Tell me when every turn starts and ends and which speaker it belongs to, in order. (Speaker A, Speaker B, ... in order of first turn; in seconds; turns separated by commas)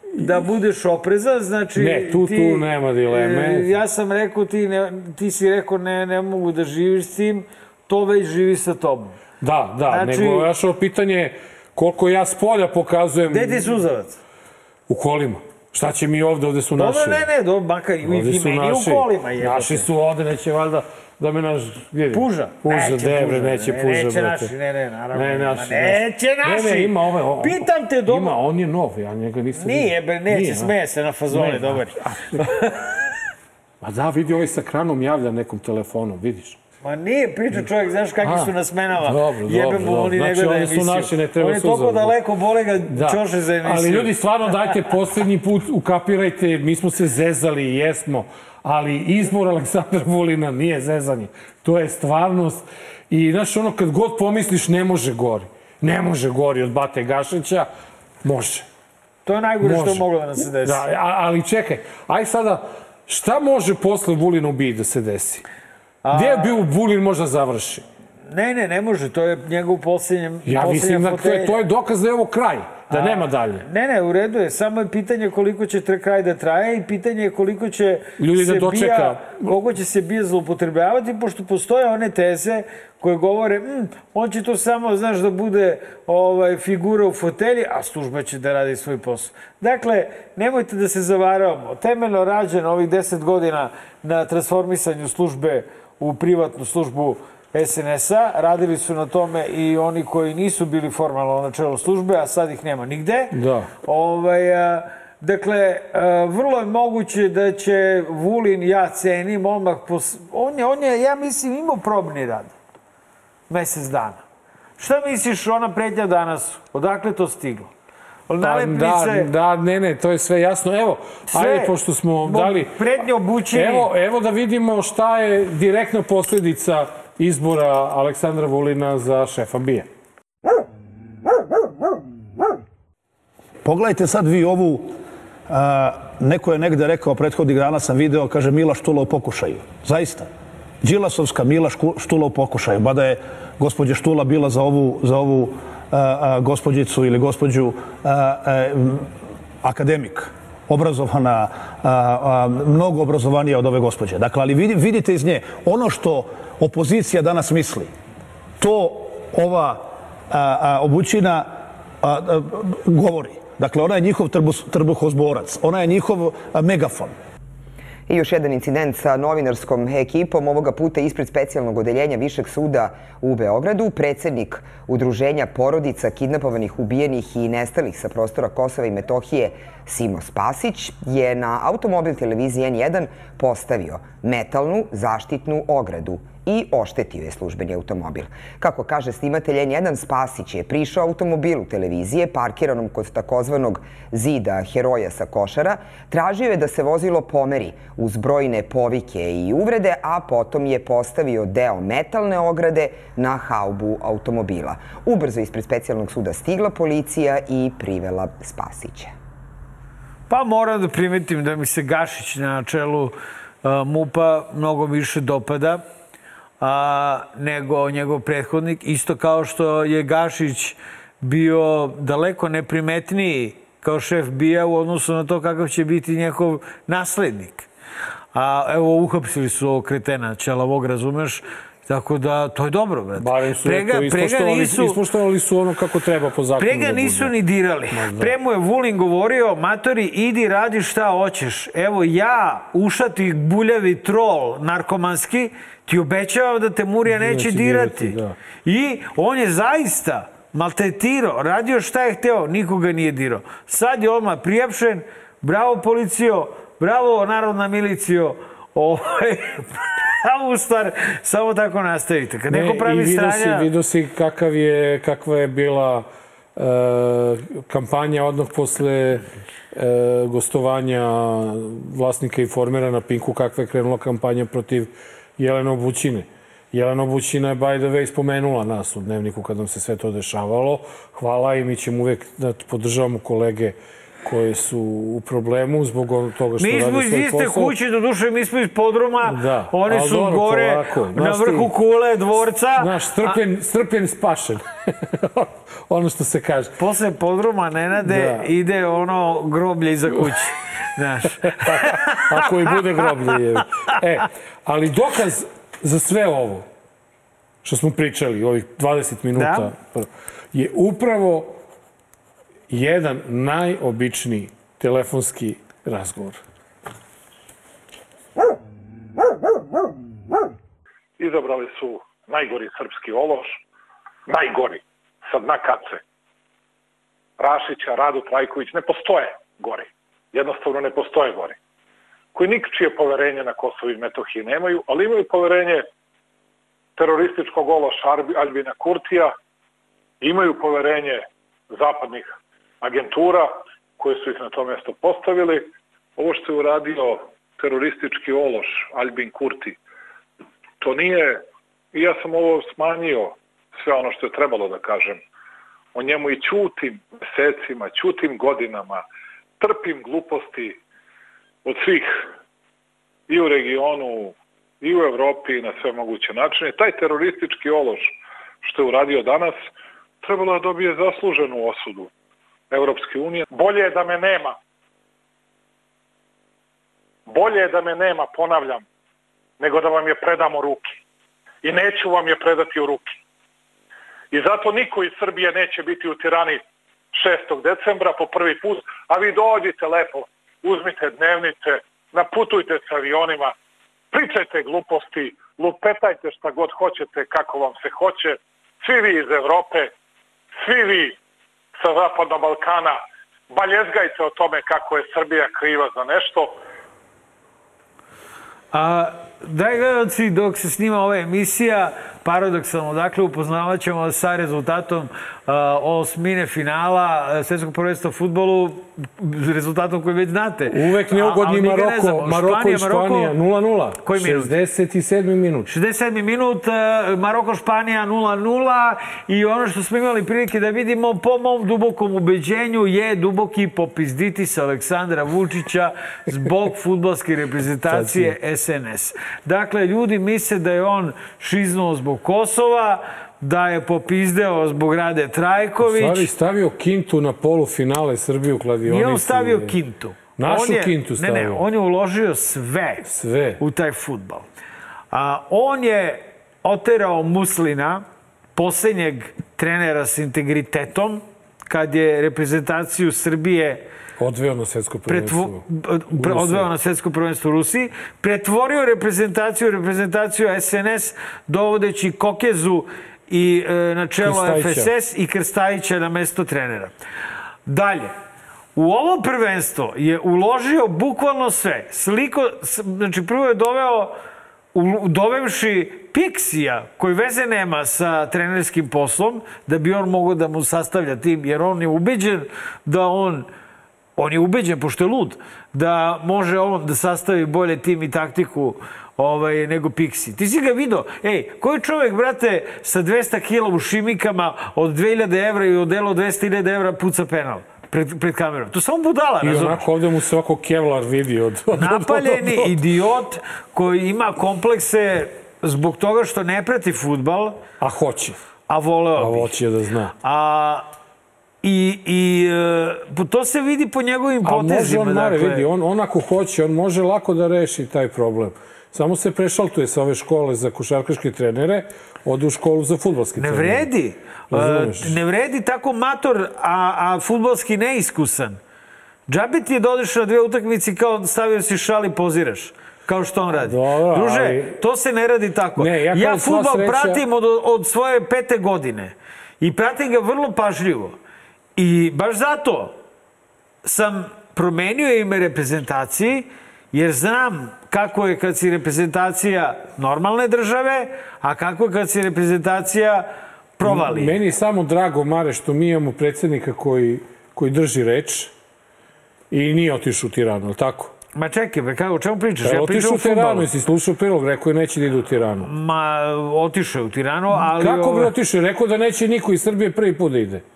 Speaker A: 0.2-0.4, Speaker B: 0.2-9.2, Speaker A: 1.8-3.7, Speaker A: 9.4-13.7, Speaker B: 9.9-10.5, Speaker B: 13.3-14.2, Speaker A: 14.9-17.2, Speaker B: 16.8-19.9, Speaker A: 18.0-24.5, Speaker B: 22.1-28.4, Speaker A: 25.1-30.7, Speaker B: 29.5-32.9, Speaker A: 31.3-32.5, Speaker A: 33.8-36.6, Speaker B: 36.8-44.8, Speaker A: 38.2-42.1, Speaker A: 42.9-57.7, Speaker A: 58.2-58.7, Speaker B: 59.2-60.8, Speaker A: 59.6-60.0, Speaker A: 60.6-65.4, Speaker B: 66.0-66.6, Speaker A: 66.1-67.8, Speaker B: 68.3-71.6, Speaker A: 70.4-73.6, Speaker B: 72.9-112.5, Speaker A: 78.2-79.5, Speaker A: 103.3-103.7, Speaker B: 113.5-114.2, Speaker B: 114.8-117.7, Speaker B: 118.3-119.3, Speaker A: 118.4-122.7, Speaker B: 121.3-123.9, Speaker A: 123.5-129.9, Speaker C: 133.6-135.0, Speaker C: 135.5-140.3, Speaker C: 140.8-149.1, Speaker C: 149.6-157.9, Speaker C: 158.6-167.1, Speaker D: 168.1-209.1, Speaker B: 210.3-215.8, Speaker B: 216.6-227.7, Speaker B: 228.3-235.0, Speaker A: 233.2-237.3, Speaker B: 236.6-263.7, Speaker A: 237.9-238.3, Speaker A: 247.1-248.3, Speaker A: 262.5-287.7, Speaker B: 286.6-293.4, Speaker A: 289.2-291.7, Speaker A: 292.8-296.8, Speaker B: 296.8-302.8, Speaker A: 298.1-298.5, Speaker A: 301.5-306.6, Speaker A: 307.6-311.6, Speaker B: 309.3-309.7, Speaker A: 312.7-316.4, Speaker E: 321.2-323.6, Speaker E: 324.3-326.0, Speaker E: 327.4-331.6, Speaker E: 332.3-335.8, Speaker E: 337.0-339.3, Speaker E: 340.2-349.8, Speaker E: 350.8-355.2, Speaker E: 355.9-359.0, Speaker E: 359.6-360.8, Speaker E: 361.6-362.2, Speaker E: 363.3-369.6, Speaker E: 370.2-372.1, Speaker E: 372.7-374.6, Speaker E: 377.3-378.8, Speaker E: 379.6-381.0, Speaker E: 381.6-383.2, Speaker E: 384.3-386.6, Speaker E: 387.1-393.5, Speaker E: 394.1-399.9, Speaker E: 400.6-401.1, Speaker E: 401.8-406.6, Speaker B: 408.7-423.3, Speaker A: 420.7-425.7, Speaker B: 424.0-424.5, Speaker B: 425.7-446.3, Speaker A: 437.9-438.3, Speaker A: 445.8-449.7, Speaker B: 448.9-453.1, Speaker A: 450.4-451.7, Speaker A: 453.0-453.6, Speaker B: 453.6-454.5, Speaker B: 455.1-458.0, Speaker B: 458.6-463.8, Speaker A: 464.2-465.6, Speaker B: 465.1-476.9, Speaker A: 466.1-466.7, Speaker A: 474.2-474.9, Speaker B: 477.6-478.1, Speaker B: 478.8-484.1, Speaker B: 484.7-493.5, Speaker B: 494.2-509.9, Speaker A: 509.4-512.7, Speaker B: 511.7-517.6, Speaker A: 517.8-518.4, Speaker B: 518.7-519.5, Speaker A: 519.2-520.1, Speaker B: 520.2-520.9, Speaker B: 521.6-525.7, Speaker A: 524.4-533.9, Speaker B: 533.4-538.6, Speaker A: 534.5-535.1, Speaker B: 539.3-551.1, Speaker A: 543.6-544.8, Speaker A: 545.8-547.2, Speaker B: 551.8-553.0, Speaker B: 553.8-564.4, Speaker A: 563.8-568.5, Speaker A: 569.5-571.1, Speaker B: 571.3-573.7, Speaker A: 572.6-575.7, Speaker B: 575.6-578.3, Speaker A: 577.5-580.6